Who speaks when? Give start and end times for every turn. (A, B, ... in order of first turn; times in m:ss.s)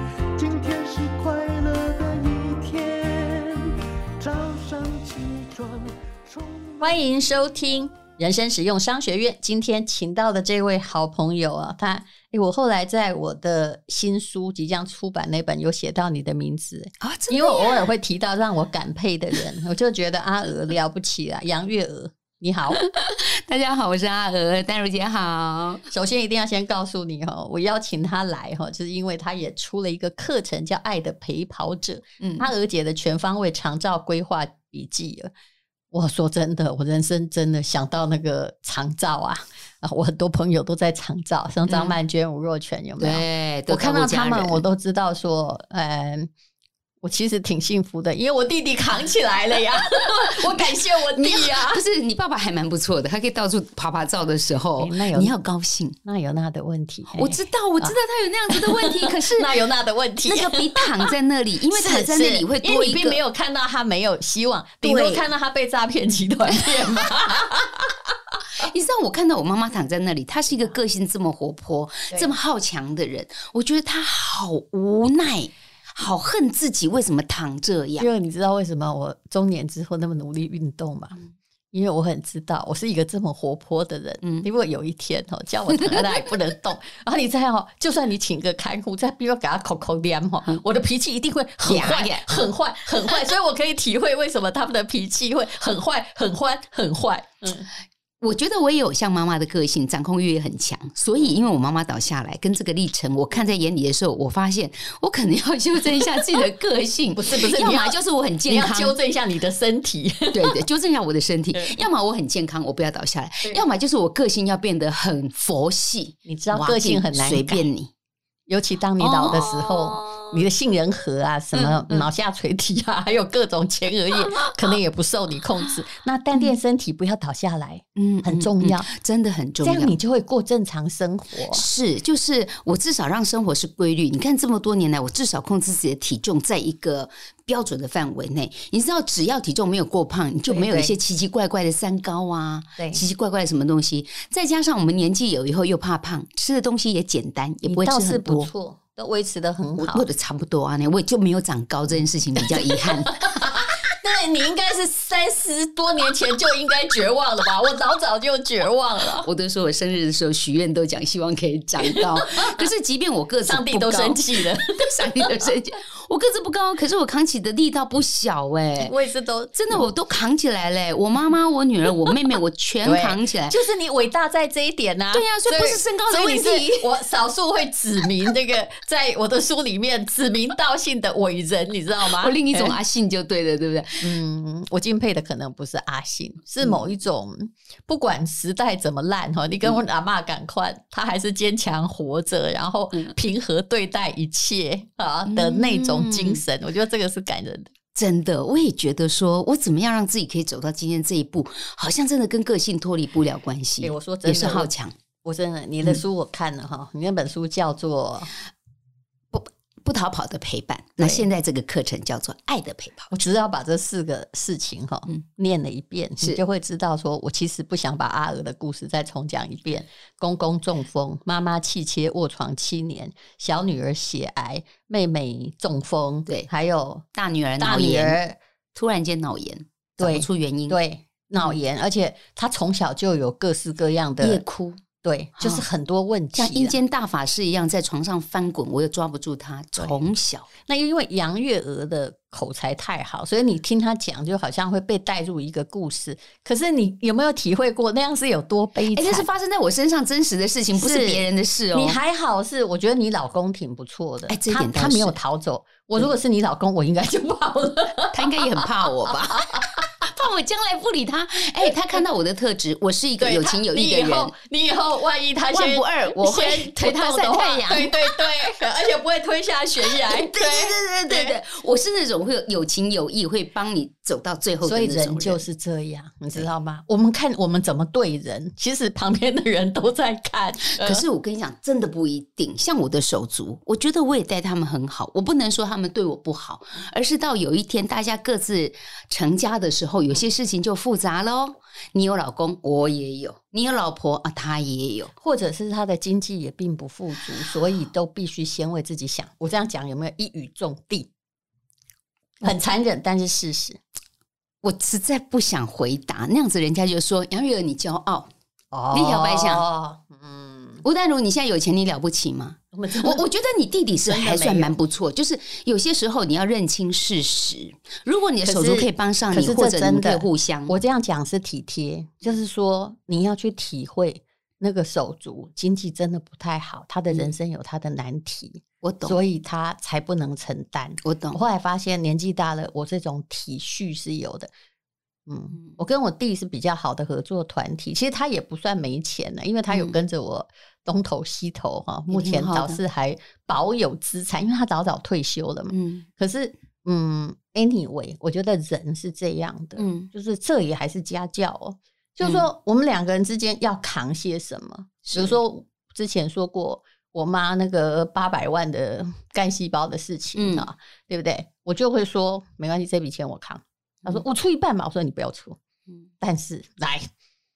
0:00.4-0:07.0 A
0:06.8-0:22.8 B
0:17.0-0:17.9 C
0:22.7-0:25.8 C
0:25.9-0:35.3 B
0:32.2-0:32.5 C
0:35.9-0:46.3 B
0:41.7-0:42.0 C
0:43.0-0:44.6 C
0:47.0-0:51.8 B
0:49.8-0:56.0 C
0:54.8-0:55.3 B
0:56.0-0:58.0 B
0:57.1-0:59.6 C
0:58.5-1:01.1 B
1:00.3-1:03.2 C
1:01.7-1:08.4 B
1:04.8-1:05.2 C
1:06.5-1:07.1 C
1:08.5-1:18.1 C
1:18.0-1:21.2 B
1:21.7-1:37.7 B
1:24.2-1:24.5 C
1:31.7-1:32.3 C
1:38.2-1:49.0 C
1:47.2-1:50.6 B
1:50.3-1:57.9 C
1:51.5-1:51.8 B
1:56.3-1:57.6 B
1:58.5-2:08.9 B
1:59.0-2:00.3 C
2:01.6-2:02.1 C
2:08.0-2:10.0 C
2:09.6-2:11.6 B
2:11.5-2:28.5 C
2:20.5-2:21.0 B
2:22.8-2:23.0 B
2:27.6-2:30.1 B
2:29.8-2:33.4 C
2:32.4-2:39.3 B
2:39.2-2:48.9 C
2:41.9-2:42.7 B
2:43.5-2:45.5 B
2:48.8-2:49.9 B
2:49.5-2:53.6 C
2:52.8-3:02.8 B
2:55.1-2:56.9 C
3:02.1-3:04.1 C
3:04.0-3:17.7 B
3:15.3-3:16.4 C
3:18.0-3:25.0 C
3:23.8-3:24.7 B
3:25.2-3:28.3 B
3:29.3-3:33.1 C
3:31.0-3:31.3 B
3:33.1-3:47.0 B
3:47.2-3:48.2 C
3:47.6-3:48.4 B
3:48.7-3:50.8 C
3:50.0-3:54.4 B
3:54.2-3:54.8 C
3:55.0-3:56.8 B
3:55.4-3:55.6 C
3:56.4-4:00.5 C
3:59.8-4:00.0 B
4:00.6-4:09.3 B
4:08.9-4:12.0 C
4:10.7-4:20.1 B
4:14.3-4:15.2 C
4:18.1-4:24.3 C
4:23.2-4:31.4 B
4:25.5-4:28.2 C
4:29.8-4:35.4 C
4:34.6-4:41.0 B
4:40.6-4:55.1 C
4:55.2-5:01.1 B
5:02.4-5:03.8 B
5:04.6-5:08.3 C
5:08.7-5:10.8 B
5:08.9-5:09.6 C
5:10.8-5:20.8 C
5:12.7-5:13.2 B
5:14.1-5:14.7 B
5:18.4-5:34.5 B
5:28.8-5:29.2 C
5:31.0-5:31.4 C
5:35.3-6:05.6 B
5:39.7-5:40.0 C
5:42.1-5:42.8 C
5:45.7-5:46.1 C
5:49.8-5:50.1 C
5:52.2-5:52.5 C
5:55.1-5:55.4 C
6:00.4-6:00.7 C
6:06.2-6:07.1 B